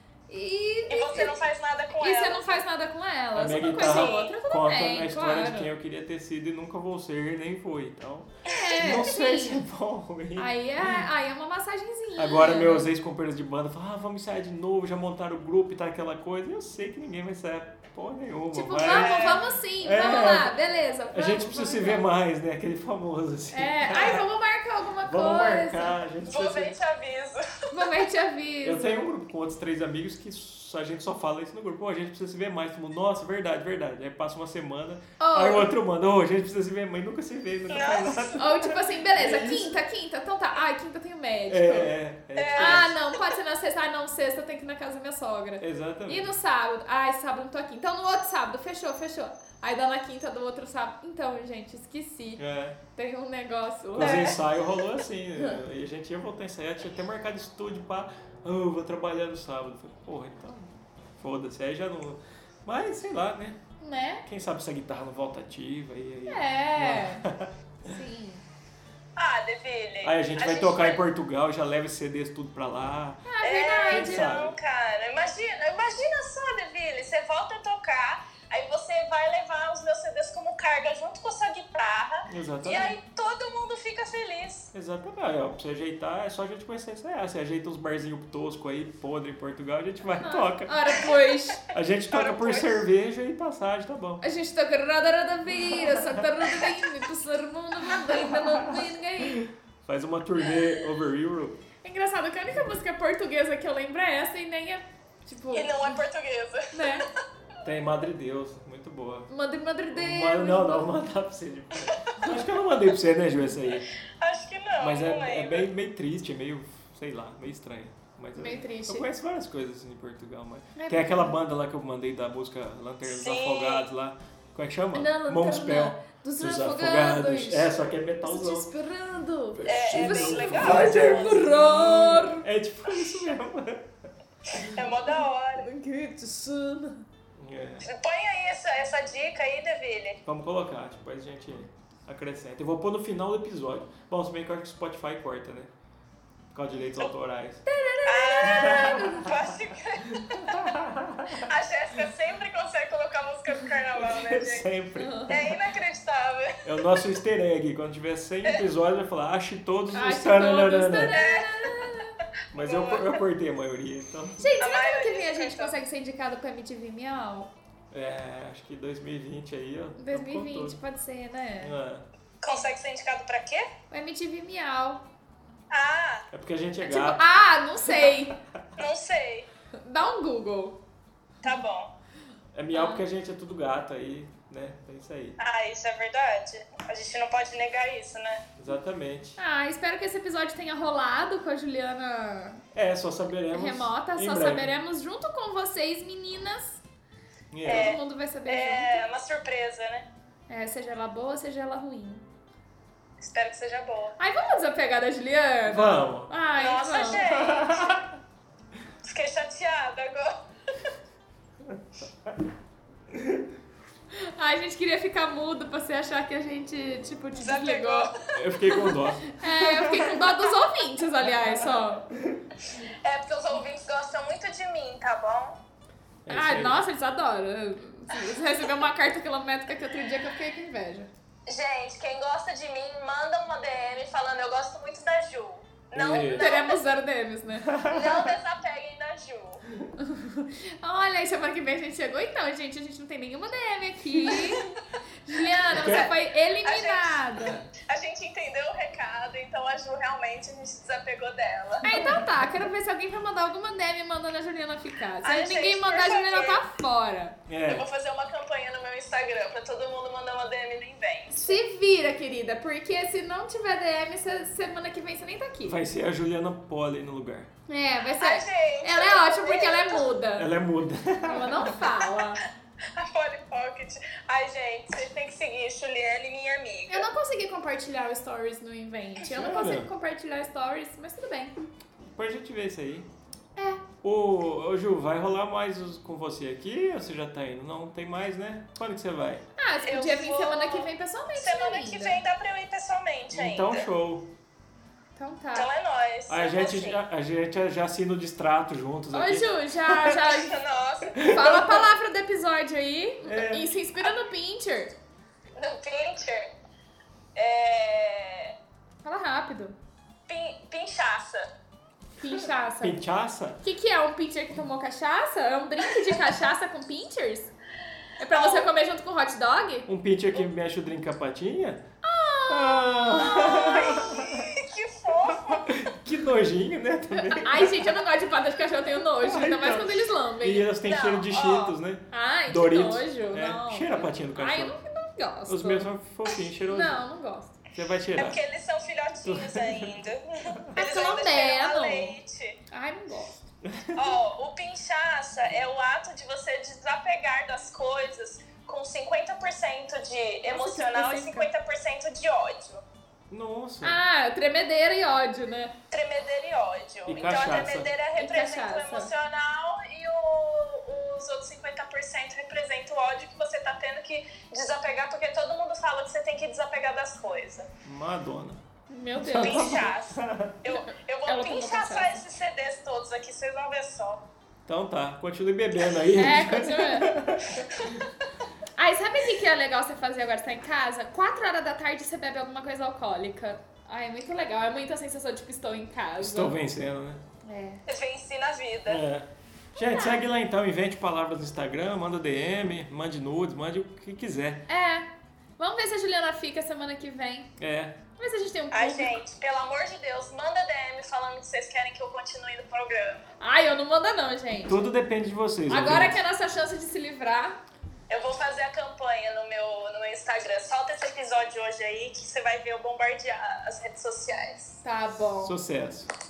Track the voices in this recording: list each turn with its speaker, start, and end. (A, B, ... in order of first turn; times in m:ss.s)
0:00.3-0:01.4 A
0:00.9-0:02.6 B
0:01.9-0:05.7 A
0:03.4-0:11.1 C
0:03.7-0:04.3 B
0:08.5-0:09.6 A
0:10.4-0:12.9 A
0:12.2-0:20.6 C
0:18.5-0:22.0 A
0:18.8-0:19.4 B
0:21.1-0:24.2 C
0:23.5-0:26.0 A
0:25.0-0:26.8 C
0:26.3-0:28.0 B
0:27.7-0:29.1 A
0:28.6-0:39.8 C
0:35.2-0:35.7 A
0:37.7-0:38.4 B
0:38.4-0:41.9 A
0:41.5-0:42.9 C
0:42.4-0:42.9 B
0:42.6-0:52.4 A
0:45.6-0:46.3 C
0:52.4-0:52.8 C
0:52.9-0:54.4 A
0:54.0-1:03.6 C
0:54.0-0:54.4 B
1:03.8-1:04.2 A
1:04.2-1:07.5 C
1:06.3-1:07.2 A
1:07.8-1:08.4 A
1:09.2-1:11.0 B
1:10.0-1:13.3 C
1:13.2-1:14.4 A
1:13.4-1:24.7 B
1:13.9-1:14.6 C
1:22.3-1:22.9 C
1:24.7-1:30.8 C
1:30.2-1:31.6 A
1:31.7-1:34.2 C
1:32.1-1:32.8 B
1:34.2-1:39.4 A
1:35.7-1:36.3 C
1:38.1-1:41.6 C
1:41.8-1:46.0 A
1:45.5-1:47.0 B
1:46.7-1:47.1 A
1:47.6-1:49.3 C
1:49.3-1:50.9 A
1:49.9-1:53.9 C
1:54.1-1:55.7 B
1:54.8-2:08.7 C
1:58.4-1:59.1 A
2:00.7-2:01.4 A
2:03.1-2:03.9 B
2:05.0-2:12.4 A
2:09.5-2:13.9 C
2:09.6-2:11.5 B
2:14.5-2:15.7 B
2:15.1-2:17.0 A
2:17.4-2:17.9 C
2:17.8-2:20.2 B
2:20.2-2:25.7 C
2:26.5-2:27.6 C
2:27.7-2:29.3 A
2:28.1-2:30.8 B
2:28.4-2:29.3 C
2:30.0-2:31.5 C
2:31.4-2:34.7 B
2:34.0-2:35.2 C
2:35.0-2:35.4 A
2:35.3-2:36.6 B
2:36.6-2:41.1 C
2:39.9-2:42.2 A
2:41.0-2:42.0 B
2:42.5-2:43.2 B
2:42.5-2:44.4 C
2:44.4-2:47.5 A
2:44.6-2:45.8 B
2:47.9-2:50.8 C
2:50.0-2:51.7 A
2:51.6-2:52.1 C
2:52.4-2:53.7 B
2:53.9-2:55.0 A
2:55.7-2:56.3 B
2:56.3-2:57.2 C
2:56.8-2:58.4 A
2:58.8-2:59.5 B
2:59.8-3:00.8 A
3:01.4-3:01.9 B
3:02.5-3:05.4 C
3:02.7-3:03.0 A
3:05.4-3:08.5 B
3:08.6-3:09.4 C
3:09.4-3:12.6 A
3:12.7-3:14.7 C
3:13.5-3:16.8 A
3:17.5-3:18.0 C
3:17.7-3:19.0 A
3:17.7-3:20.1 B
3:20.5-3:22.2 A
3:23.2-3:24.1 B
3:24.2-3:27.3 A
3:25.7-3:26.3 C
3:26.6-3:28.0 B
3:27.3-3:28.2 C
3:29.0-3:30.9 B
3:33.1-3:33.4 C
3:34.1-3:38.1 A
3:37.4-3:38.2 B
3:38.3-3:40.3 C
3:38.7-3:42.1 A
3:42.1-3:42.4 C
3:43.0-3:45.6 B
3:46.2-3:46.8 C
3:46.3-3:51.1 A
3:51.5-3:56.8 B
3:55.9-3:56.5 C
3:56.1-3:57.8 A
3:57.7-3:58.3 C
3:57.9-3:59.6 B
4:00.0-4:04.7 A
4:05.2-4:07.6 A
4:05.7-4:06.1 C
4:06.6-4:12.1 B
4:11.8-4:17.4 A
4:15.2-4:16.6 B
4:17.5-4:17.9 C
4:17.7-4:21.6 B
4:21.4-4:25.8 A
4:25.6-4:27.5 C
4:27.7-4:30.5 A
4:28.2-4:30.1 B
4:30.4-4:31.7 C
4:31.2-4:32.4 A
4:32.9-4:37.1 B
4:36.9-4:41.6 A
4:39.2-4:39.9 C
4:42.1-4:43.1 C
4:43.6-4:43.8 A
4:44.0-4:49.4 C
4:49.6-4:52.2 A
4:49.8-4:53.9 B
4:53.3-4:54.3 C
4:55.2-4:55.7 A
4:55.6-4:57.0 B
4:56.3-5:00.1 C
4:59.1-5:00.6 A
5:00.0-5:01.6 B
5:01.1-5:01.8 C
5:01.2-5:04.9 A
5:03.2-5:03.7 C
5:05.6-5:06.5 B
5:07.4-5:08.6 B
5:09.0-5:09.8 A
5:10.3-5:11.5 B
5:12.2-5:13.0 A
5:12.8-5:13.6 C
5:13.6-5:17.5 A
5:18.2-5:19.9 A
5:18.3-5:18.7 B
5:19.9-5:21.8 C
5:22.0-5:23.7 A
5:22.5-5:24.5 C
5:23.2-5:25.7 B
5:25.3-5:28.0 C
5:27.1-5:30.7 A
5:29.0-5:34.8 C
5:30.8-5:31.6 B
5:31.3-5:35.9 A
5:35.5-5:37.0 C
5:36.7-5:37.6 A
5:37.7-5:38.4 C
5:38.2-5:42.6 B
5:39.2-5:40.0 C
5:40.7-5:42.2 A
5:42.7-5:43.5 A
5:43.6-5:44.0 C
5:43.9-5:52.8 B
5:50.5-5:51.5 A
5:53.3-5:54.0 C
5:53.8-5:55.7 A
5:55.9-6:07.7 B
5:57.1-5:57.9 C
5:58.2-5:59.1 A
6:07.8-6:08.6 C
6:08.9-6:09.8 A
6:09.2-6:10.6 C
6:09.4-6:14.2 B
6:10.7-6:12.2 A
6:14.7-6:18.1 C
6:16.1-6:17.2 A
6:18.8-6:26.6 A
6:26.2-6:27.2 C
6:27.4-6:27.8 A
6:27.9-6:29.0 B
6:28.9-6:34.6 C
6:29.8-6:30.2 A
6:34.7-6:35.1 A
6:35.6-6:37.5 A
6:37.6-6:38.0 C
6:38.2-6:39.2 A
6:38.7-6:43.3 B
6:43.4-6:44.9 A
6:44.7-6:46.2 C
6:45.7-6:47.6 A
6:48.1-6:54.8 B
6:54.8-6:55.6 A
6:55.4-6:56.1 C